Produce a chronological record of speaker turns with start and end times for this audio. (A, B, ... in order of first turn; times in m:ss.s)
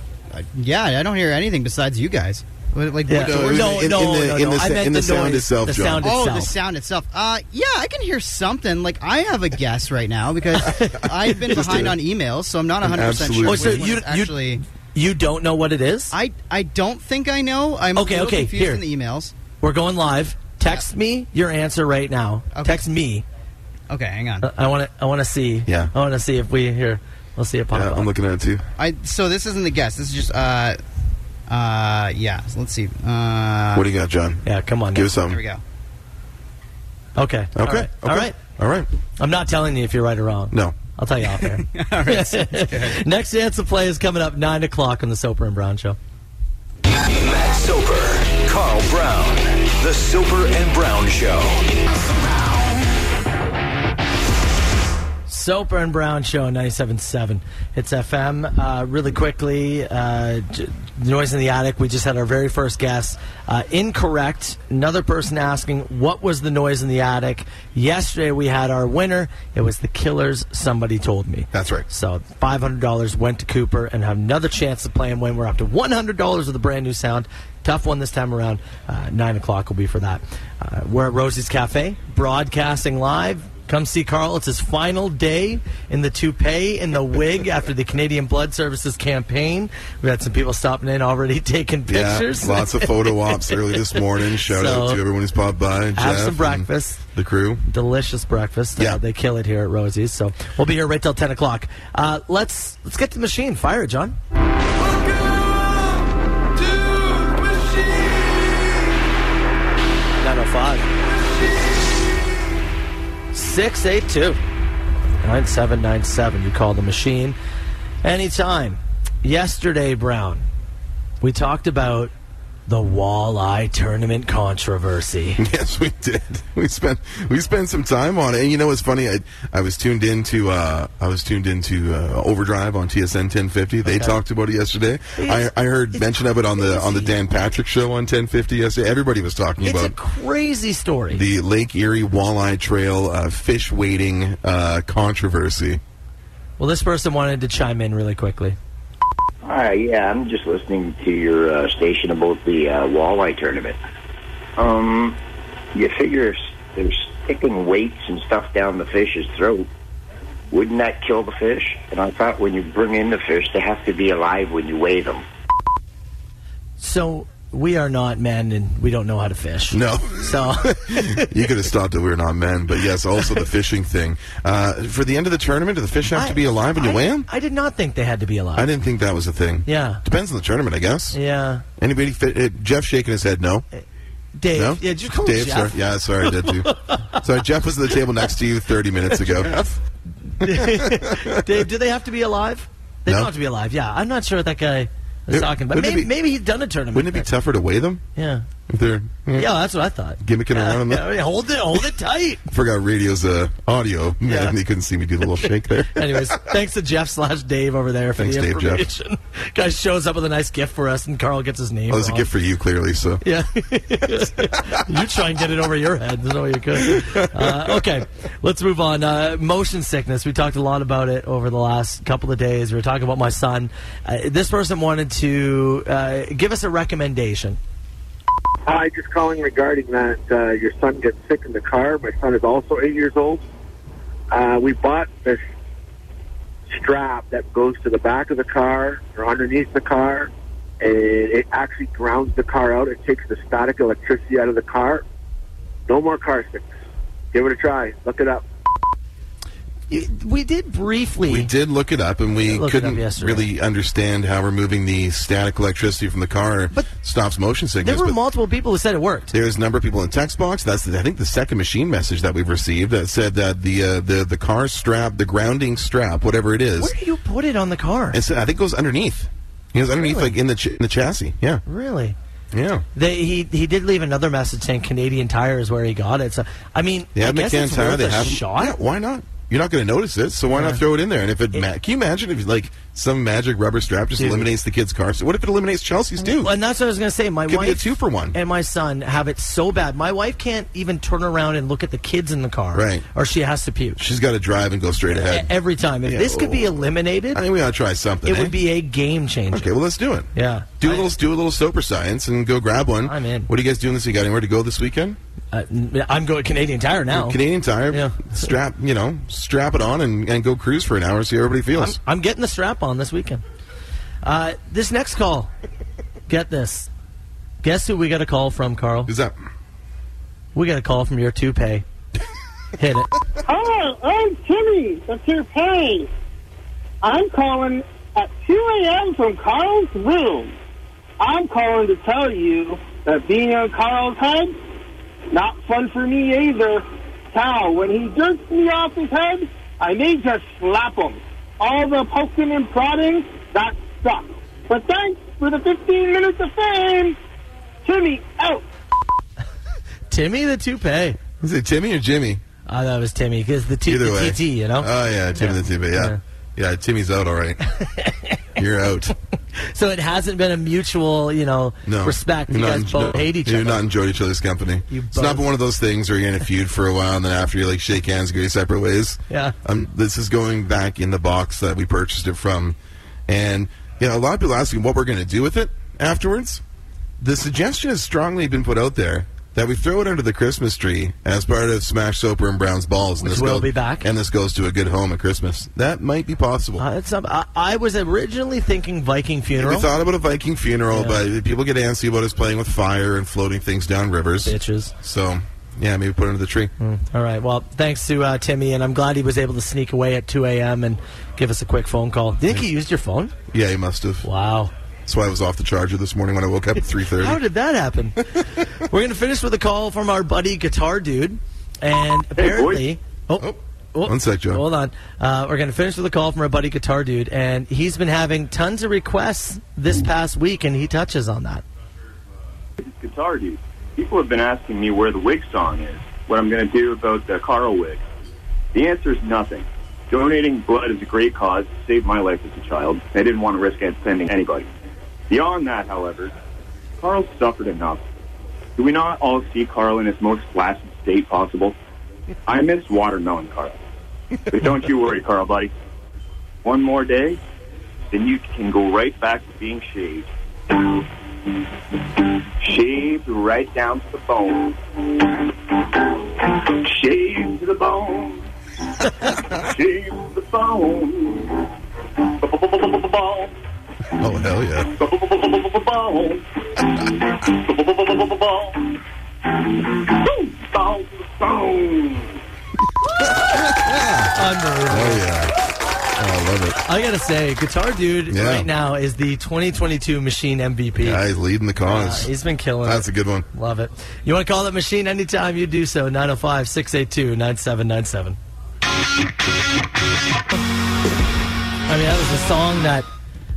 0:00.3-0:03.9 A
0:03.1-0:06.5 B
0:03.1-0:06.1 C
0:06.0-0:14.6 A
0:10.6-0:11.9 B
0:11.5-0:12.0 C
0:12.8-0:13.9 C
0:13.4-0:16.1 B
0:16.1-0:19.3 A
0:18.0-0:18.8 B
0:19.6-0:23.2 B
0:23.9-0:24.5 A
0:24.4-0:28.1 B
0:25.7-0:25.9 C
0:27.7-0:28.6 C
0:28.8-0:30.8 A
0:31.5-0:33.9 A
0:33.7-0:35.4 C
0:34.4-0:35.1 B
0:35.2-0:35.6 A
0:37.2-0:38.4 B
0:37.6-0:38.9 C
0:39.2-0:46.0 B
0:40.5-0:40.8 C
0:41.6-0:43.0 A
0:47.0-0:51.8 D
0:55.3-1:35.0 B
1:11.5-1:11.9 C
1:31.9-1:37.6 C
1:36.0-1:37.0 B
1:37.7-1:44.2 B
1:38.8-1:39.0 C
1:50.2-1:50.9 B
1:53.3-1:54.4 B
1:55.2-1:57.4 B
1:58.0-2:00.4 B
2:01.2-2:02.1 B
2:02.7-2:05.4 B
2:05.4-2:20.0 C
2:13.9-2:14.2 B
2:15.2-2:17.2 B
2:19.6-2:21.2 B
2:21.1-2:25.8 C
2:26.6-2:28.6 B
2:29.4-2:33.8 E
2:34.6-2:35.2 E
2:35.7-2:39.7 E
2:40.5-2:45.3 E
2:46.8-2:51.3 B
2:49.7-2:57.3 C
2:56.1-2:58.7 B
2:58.6-3:01.2 C
2:59.7-3:00.0 B
3:01.1-3:01.6 B
3:01.8-3:03.6 C
3:04.4-3:07.2 B
3:04.5-3:09.8 C
3:09.2-3:09.5 B
3:10.3-3:17.3 B
3:10.4-3:11.6 C
3:13.1-3:13.3 C
3:15.3-3:16.1 C
3:16.9-3:18.0 C
3:18.2-3:18.5 B
3:18.7-3:19.5 C
3:19.3-3:22.4 B
3:20.2-3:21.1 C
3:22.5-3:26.4 C
3:24.2-3:24.6 B
3:25.4-3:32.3 B
3:28.2-3:28.9 C
3:31.9-3:33.2 C
3:33.2-3:47.6 B
3:34.1-3:34.8 C
3:36.8-3:37.8 C
3:48.7-3:53.4 F
3:54.3-3:55.4 F
3:56.7-4:05.0 F
4:05.9-4:06.8 F
4:07.3-4:08.5 F
4:09.9-4:11.5 B
4:11.3-4:18.2 C
4:12.5-4:13.5 B
4:17.8-4:19.3 B
4:19.3-4:26.9 C
4:26.8-4:28.2 B
4:28.1-4:31.6 C
4:30.0-4:30.3 B
4:31.7-4:32.2 B
4:32.5-4:32.8 C
4:33.0-4:38.8 B
4:37.2-4:46.5 C
4:40.5-4:40.8 B
4:44.2-4:44.5 B
4:46.2-4:54.0 B
4:47.5-4:48.4 C
4:52.7-4:53.0 C
4:54.0-4:56.8 C
4:55.1-4:57.4 B
4:57.3-4:58.6 C
4:58.2-4:59.7 B
4:59.5-5:00.3 C
5:00.3-5:01.1 B
5:00.8-5:05.2 C
5:03.0-5:03.5 B
5:05.5-5:08.5 B
5:07.1-5:12.0 C
5:11.7-5:13.4 B
5:14.2-5:15.5 B
5:16.3-5:16.9 B
5:17.6-5:19.1 B
5:19.1-5:19.4 C
5:20.6-5:21.8 B
5:22.8-5:23.1 B
5:23.5-5:26.1 G
5:27.0-5:30.6 G
5:31.2-5:34.6 G
5:35.3-5:47.2 G
5:47.8-5:48.6 G
5:50.1-5:51.2 B
5:51.4-5:52.4 C
5:52.7-5:56.2 B
5:53.8-5:57.6 C
5:57.6-5:58.4 B
5:58.6-5:59.1 C
5:59.6-6:03.8 B
6:01.9-6:12.8 C
6:04.9-6:05.5 B
6:09.3-6:09.6 B
6:13.3-6:16.6 C
6:17.2-6:26.8 C
6:23.2-6:24.1 B
6:26.8-6:29.9 B
6:29.6-6:36.7 C
6:30.9-6:31.2 B
6:34.4-6:34.9 B
6:36.8-6:43.3 B
6:43.5-6:44.3 C
6:44.2-6:44.7 B
6:45.1-6:47.4 C
6:47.1-7:01.6 B
6:52.4-6:52.9 H
6:53.4-6:54.6 C
7:02.8-7:08.0 H
7:08.7-7:14.7 H
7:15.3-7:16.3 H
7:17.0-7:18.0 H
7:18.8-7:21.8 H
7:22.5-7:23.8 H
7:24.5-7:25.7 H
7:26.6-7:27.4 H
7:28.1-7:31.0 H
7:32.6-7:38.5 H
7:39.0-7:41.7 H
7:42.2-7:43.5 H
7:44.2-7:44.9 C
7:45.0-7:49.0 H
7:49.5-7:52.4 H
7:53.1-7:54.3 C
7:54.3-7:55.2 B
7:54.9-7:55.6 C
7:56.2-7:56.8 C
7:56.9-8:01.2 B
7:58.3-7:58.7 C
8:01.0-8:02.3 C
8:01.8-8:08.4 B
8:02.8-8:03.5 C
8:11.9-8:13.1 B